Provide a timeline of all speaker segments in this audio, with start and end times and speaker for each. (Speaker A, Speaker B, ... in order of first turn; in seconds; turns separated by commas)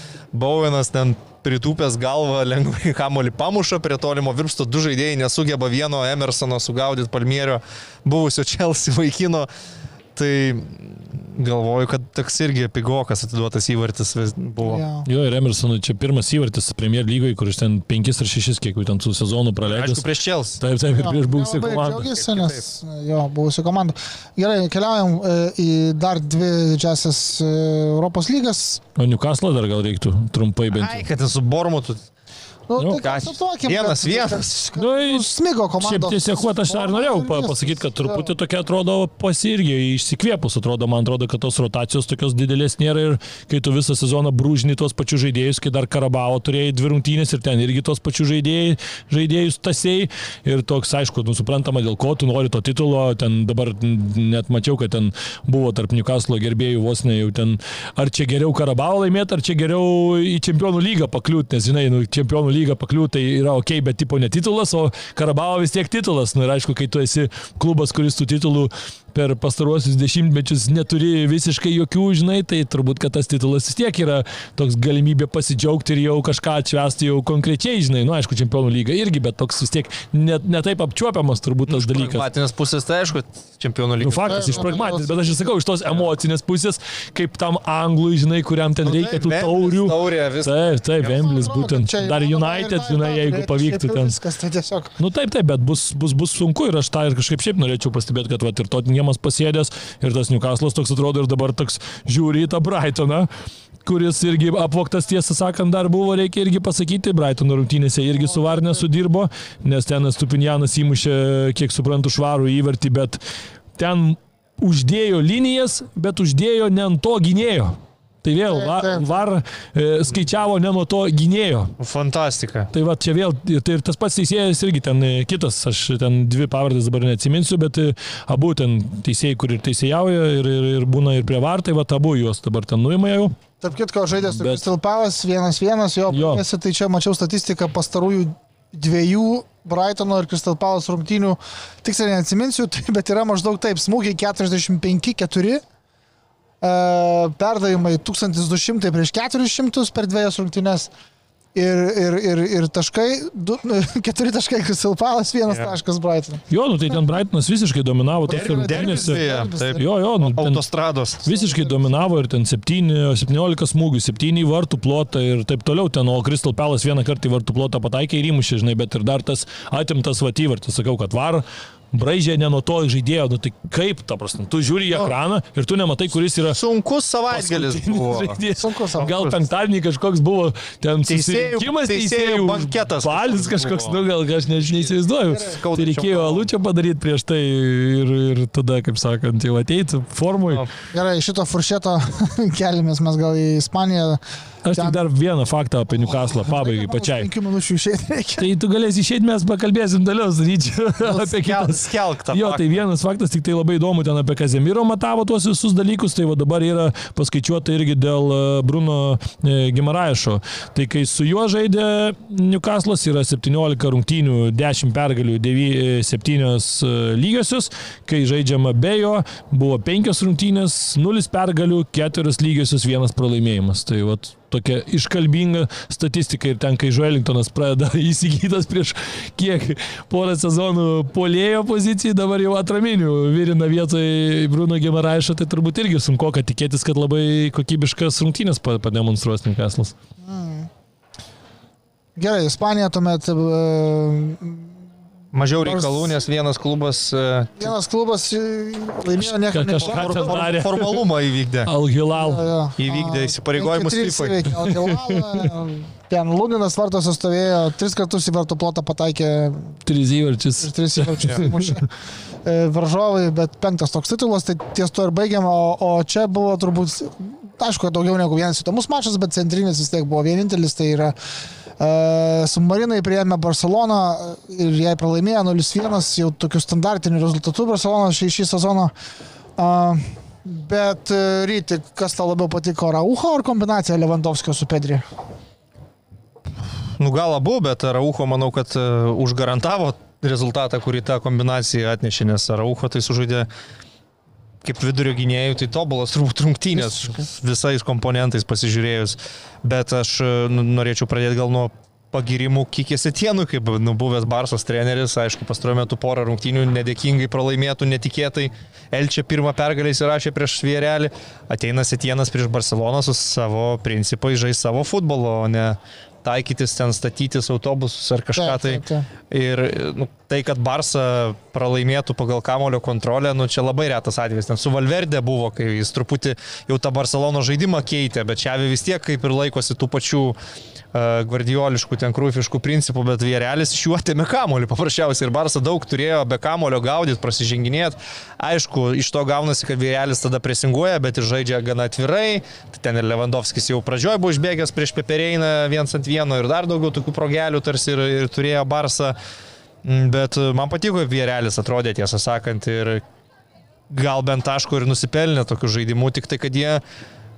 Speaker A: 0.3-9.5, Speaker A: 10.1-14.8, Speaker B: 14.6-15.1, Speaker C: 15.1-20.0, Speaker A: 19.6-20.6, Speaker C: 20.6-22.1, Speaker B: 20.9-28.8, Speaker A: 22.1-22.6, Speaker C: 29.0-31.0, Speaker A: 30.7-32.0, Speaker B: 32.7-38.3, Speaker A: 33.0-34.7, Speaker C: 34.8-82.2, Speaker A: 81.7-84.8, Speaker C: 84.0-94.2, Speaker B: 84.2-85.1, Speaker A: 88.8-91.1, Speaker B: 91.0-94.9, Speaker C: 95.0-103.3, Speaker C: 103.8-113.2, Speaker B: 108.2-108.8, Speaker C: 113.8-121.7, Speaker B: 118.5-119.1, Speaker A: 121.8-122.7, Speaker C: 122.7-133.3, Speaker B: 133.6-145.6, Speaker C: 134.3-134.6, Speaker C: 136.1-136.4, Speaker B: 146.6-150.9, Speaker B: 151.5-156.4, Speaker A: 155.5-155.7, Speaker C: 156.5-160.6, Speaker B: 158.2-159.8, Speaker A: 158.3-161.3, Speaker B: 161.2-162.1, Speaker C: 161.2-176.6, Speaker A: 176.5-178.4, Speaker C: 177.3-190.6, Speaker B: 178.5-179.1, Speaker A: 179.0-179.4, Speaker A: 181.1-184.0, Speaker A: 184.6-186.5, Speaker B: 190.9-194.2, Speaker C: 194.6-197.3, Speaker B: 194.7-195.0, Speaker B: 195.9-198.5, Speaker C: 198.4-239.9, Speaker A: 201.0-202.8, Speaker B: 240.2-240.7, Speaker B: 242.2-244.7, Speaker A: 245.3-247.7, Speaker B: 245.6-246.2, Speaker B: 247.6-250.4, Speaker C: 249.2-251.0, Speaker A: 249.8-251.7, Speaker C: 251.7-252.4, Speaker B: 252.1-259.8, Speaker A: 252.8-254.6, Speaker C: 254.6-255.5, Speaker C: 259.9-261.8, Speaker B: 260.6-261.9, Speaker B: 262.4-271.1, Speaker B: 271.8-278.9, Speaker B: 279.6-285.0, Speaker A: 287.0-293.5, Speaker A: 294.6-330.4, Speaker B: 318.4-319.1, Speaker A: 330.9-349.2, Speaker A: 349.8-353.0, Speaker A: 353.9-356.8